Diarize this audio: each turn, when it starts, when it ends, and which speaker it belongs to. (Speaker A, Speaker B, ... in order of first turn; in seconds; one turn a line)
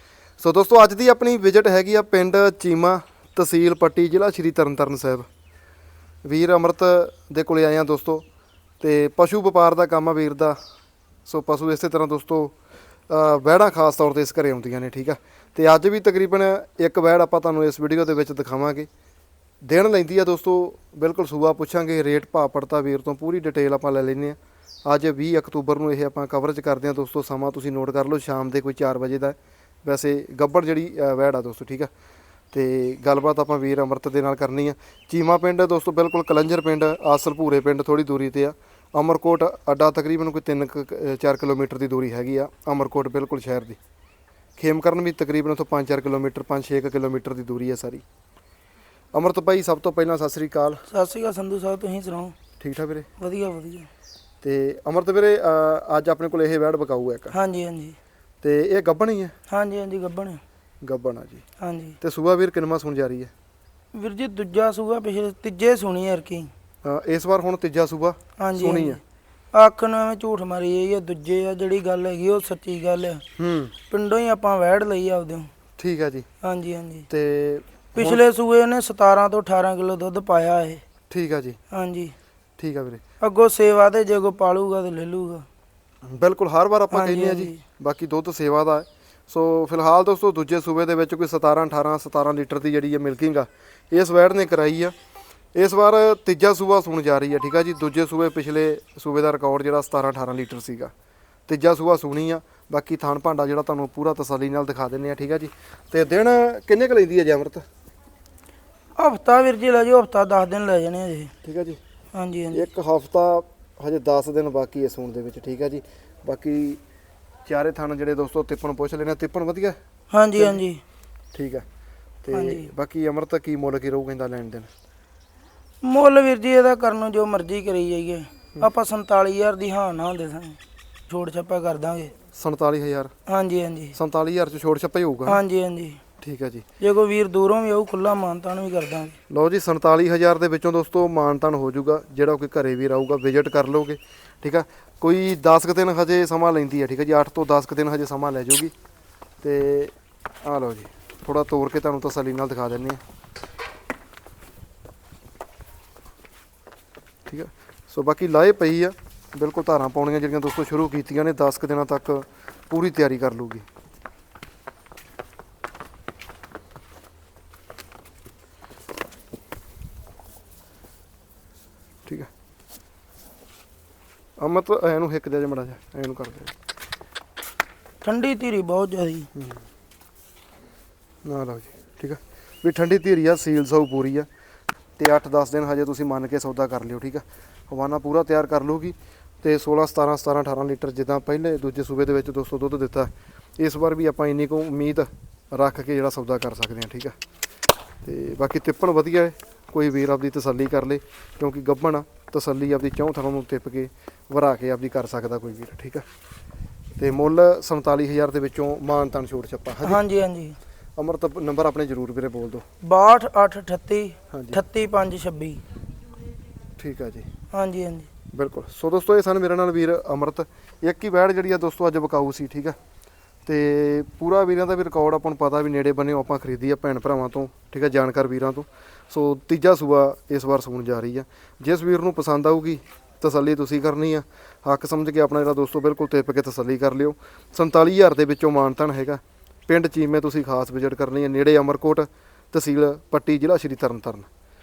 Speaker A: 0.4-5.3
Speaker A: 6.2-8.2
Speaker A: 8.8-10.6
Speaker A: 11.2-12.5
Speaker A: 13.1-18.9
Speaker A: 19.6-31.9
Speaker A: 32.5-43.8
Speaker A: 44.6-48.0
Speaker A: 49.1-50.8
Speaker B: 50.9-52.4
Speaker A: 52.6-53.1
Speaker B: 53.2-53.9
Speaker A: 54.4-57.3
Speaker B: 57.3-58.0
Speaker A: 58.4-59.3
Speaker B: 59.5-60.4
Speaker A: 60.8-61.4
Speaker B: 61.6-62.0
Speaker A: 62.0-63.3
Speaker B: 63.9-66.5
Speaker A: 66.8-69.0
Speaker B: 68.4-69.0
Speaker B: 69.5-73.2
Speaker A: 73.4-73.7
Speaker B: 73.9-75.5
Speaker A: 75.8-76.2
Speaker B: 76.4-77.1
Speaker A: 77.1-78.2
Speaker B: 77.9-80.8
Speaker A: 81.1-81.6
Speaker B: 81.7-82.1
Speaker A: 82.6-83.0
Speaker B: 83.2-85.5
Speaker A: 86.0-94.9
Speaker B: 86.9-87.6
Speaker A: 95.5-100.9
Speaker A: 101.5-107.7
Speaker B: 109.0-111.3
Speaker A: 111.4-111.8
Speaker B: 112.1-112.7
Speaker A: 112.5-116.8
Speaker A: 117.5-119.8
Speaker B: 120.1-120.8
Speaker A: 121.3-121.6
Speaker A: 122.2-124.7
Speaker B: 122.3-122.7
Speaker B: 125.8-132.1
Speaker A: 132.3-133.1
Speaker B: 133.3-134.0
Speaker A: 133.9-135.4
Speaker B: 135.2-136.0
Speaker A: 136.2-136.6
Speaker B: 136.8-139.2
Speaker A: 139.3-148.7
Speaker A: 149.4-153.0
Speaker A: 157.2-163.7
Speaker A: 174.4-176.5
Speaker B: 178.0-179.3
Speaker A: 179.3-179.6
Speaker A: 181.2-184.3
Speaker A: 185.0-197.1
Speaker A: 198.0-206.1
Speaker A: 207.0-210.0
Speaker B: 209.8-210.6
Speaker A: 210.9-212.6
Speaker B: 212.8-215.6
Speaker A: 214.3-214.6
Speaker A: 216.8-217.3
Speaker B: 217.5-218.1
Speaker A: 218.3-222.8
Speaker A: 223.4-244.3